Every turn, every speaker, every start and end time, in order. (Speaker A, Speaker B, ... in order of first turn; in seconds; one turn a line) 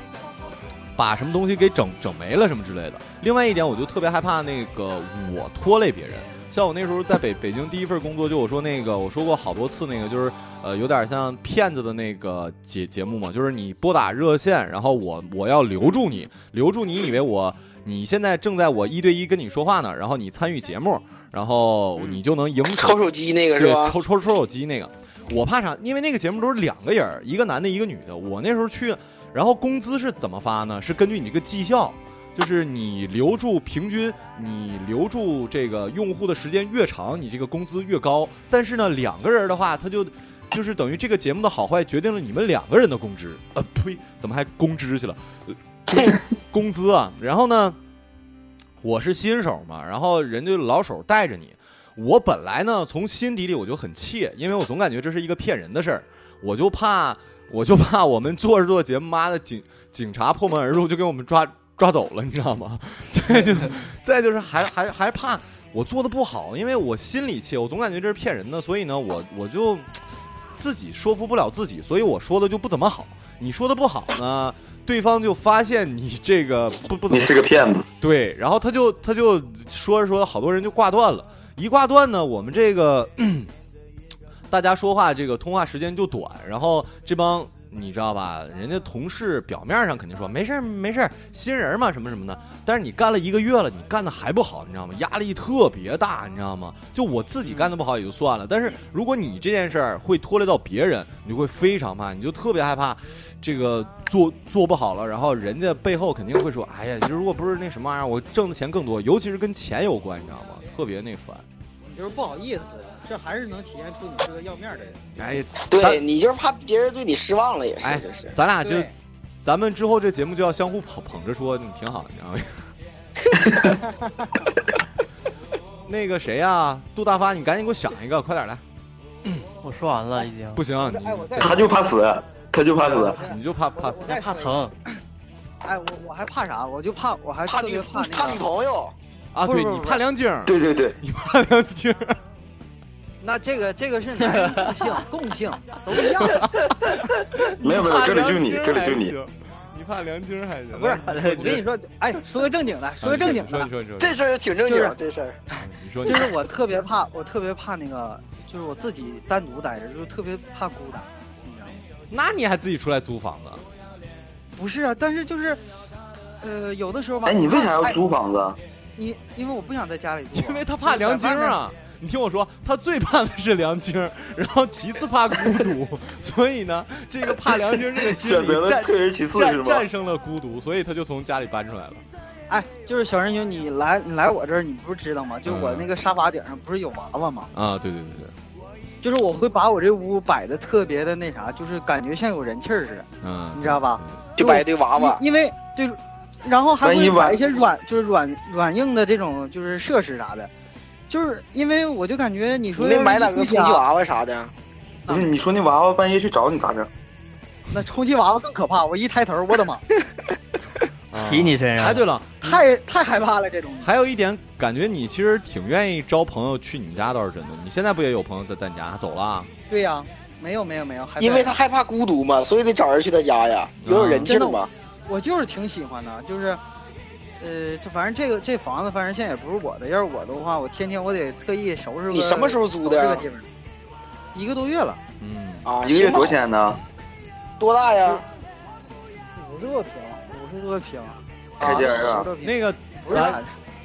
Speaker A: 0.9-23.0
Speaker B: 22.7-23.9
Speaker A: 23.6-47.8
Speaker A: 48.8-70.0
Speaker A: 70.5-77.4
Speaker C: 77.1-77.8
Speaker A: 78.0-83.5
Speaker A: 84.5-111.4
Speaker D: 111.8-115.0
Speaker A: 115.2-116.0
Speaker B: 115.6-118.3
Speaker A: 117.8-118.9
Speaker D: 118.6-118.9
Speaker A: 119.4-122.7
Speaker C: 123.5-123.7
Speaker A: 125.8-128.6
Speaker E: 129.6-130.6
Speaker A: 130.5-131.6
Speaker D: 130.8-131.8
Speaker C: 131.4-133.2
Speaker D: 132.8-134.6
Speaker A: 133.2-134.2
Speaker E: 134.0-134.7
Speaker D: 135.6-138.4
Speaker B: 137.4-138.9
Speaker A: 139.3-142.2
Speaker D: 139.4-140.0
Speaker C: 140.4-141.0
Speaker D: 143.2-146.5
Speaker A: 146.2-146.5
Speaker A: 147.6-151.6
Speaker C: 147.6-149.2
Speaker D: 150.7-153.7
Speaker E: 151.1-151.6
Speaker A: 153.0-154.2
Speaker B: 154.0-155.4
Speaker D: 154.7-154.9
Speaker A: 155.6-156.3
Speaker D: 156.0-161.8
Speaker A: 162.1-163.6
Speaker D: 164.5-165.6
Speaker D: 166.4-168.0
Speaker C: 167.2-168.6
Speaker D: 169.0-171.6
Speaker A: 170.3-182.0
Speaker C: 178.2-179.8
Speaker D: 182.5-187.5
Speaker A: 185.4-185.9
Speaker A: 187.5-188.3
Speaker D: 189.0-200.5
Speaker A: 193.2-194.2
Speaker B: 194.4-195.2
Speaker C: 196.8-197.4
Speaker D: 201.1-203.8
Speaker B: 202.8-204.5
Speaker C: 205.1-206.9
Speaker D: 207.7-209.8
Speaker A: 211.1-212.6
Speaker E: 211.1-212.0
Speaker D: 212.4-213.9
Speaker A: 213.8-219.5
Speaker D: 219.7-221.5
Speaker B: 221.2-224.7
Speaker A: 223.8-224.3
Speaker D: 224.2-226.6
Speaker D: 227.4-233.5
Speaker B: 232.1-233.2
Speaker D: 234.3-235.0
Speaker A: 235.2-235.7
Speaker B: 235.6-236.4
Speaker C: 235.8-236.8
Speaker B: 237.6-238.2
Speaker D: 239.3-243.5
Speaker C: 241.6-242.3
Speaker A: 242.4-243.4